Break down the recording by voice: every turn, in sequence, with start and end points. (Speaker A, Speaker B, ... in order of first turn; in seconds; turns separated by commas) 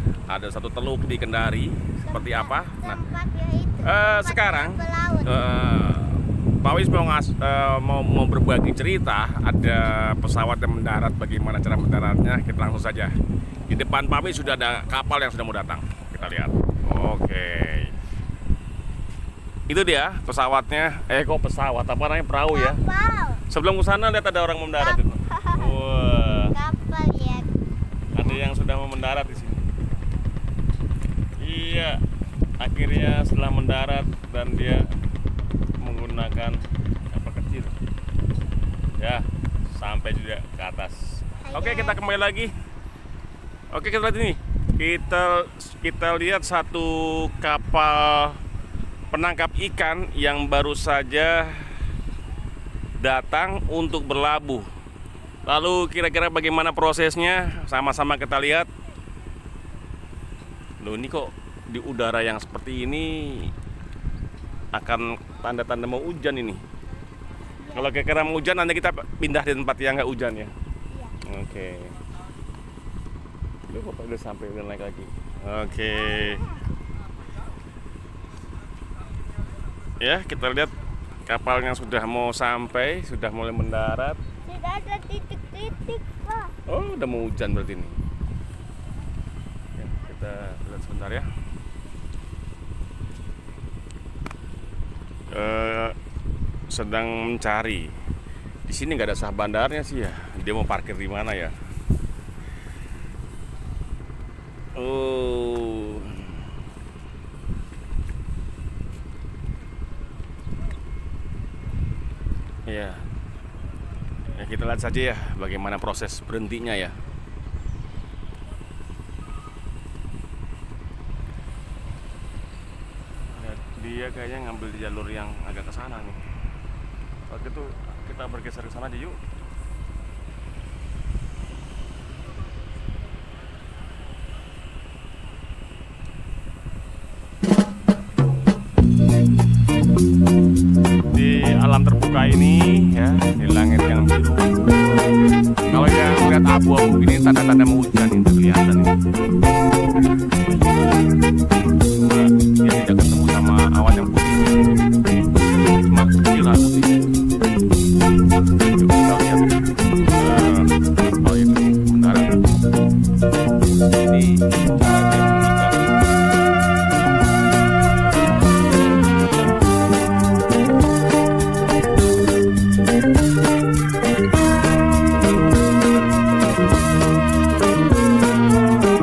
Speaker A: 0.3-3.0, Speaker B: 2.1-5.3, Speaker A: 3.8-13.2, Speaker A: 13.7-17.9, Speaker A: 19.7-22.8, Speaker B: 22.5-23.4, Speaker A: 23.5-26.6, Speaker B: 24.8-25.8, Speaker B: 26.5-27.5, Speaker A: 28.1-29.7, Speaker A: 31.4-32.0, Speaker A: 32.6-34.9, Speaker A: 35.8-37.7, Speaker A: 39.0-42.5, Speaker B: 41.5-42.0, Speaker A: 43.7-48.4, Speaker A: 49.1-51.7, Speaker A: 53.0-54.7, Speaker A: 55.5-58.7, Speaker A: 60.8-63.5, Speaker A: 64.7-66.6, Speaker B: 67.6-67.9, Speaker A: 67.7-70.5, Speaker B: 70.9-71.2, Speaker A: 71.2-72.0, Speaker A: 73.7-76.5, Speaker B: 75.9-76.6, Speaker A: 80.0-80.7, Speaker A: 81.3-84.2, Speaker B: 84.5-86.5, Speaker A: 86.7-88.0, Speaker A: 89.8-91.3, Speaker A: 95.3-96.0, Speaker A: 96.7-97.9, Speaker A: 98.7-101.5, Speaker A: 104.8-106.4, Speaker A: 112.7-113.0, Speaker A: 114.3-117.0, Speaker A: 123.3-126.2, Speaker A: 127.3-129.2, Speaker A: 141.1-145.1, Speaker A: 145.7-148.9, Speaker A: 151.9-154.7, Speaker A: 155.9-157.1, Speaker A: 158.6-159.5, Speaker A: 160.2-162.4, Speaker A: 163.7-165.9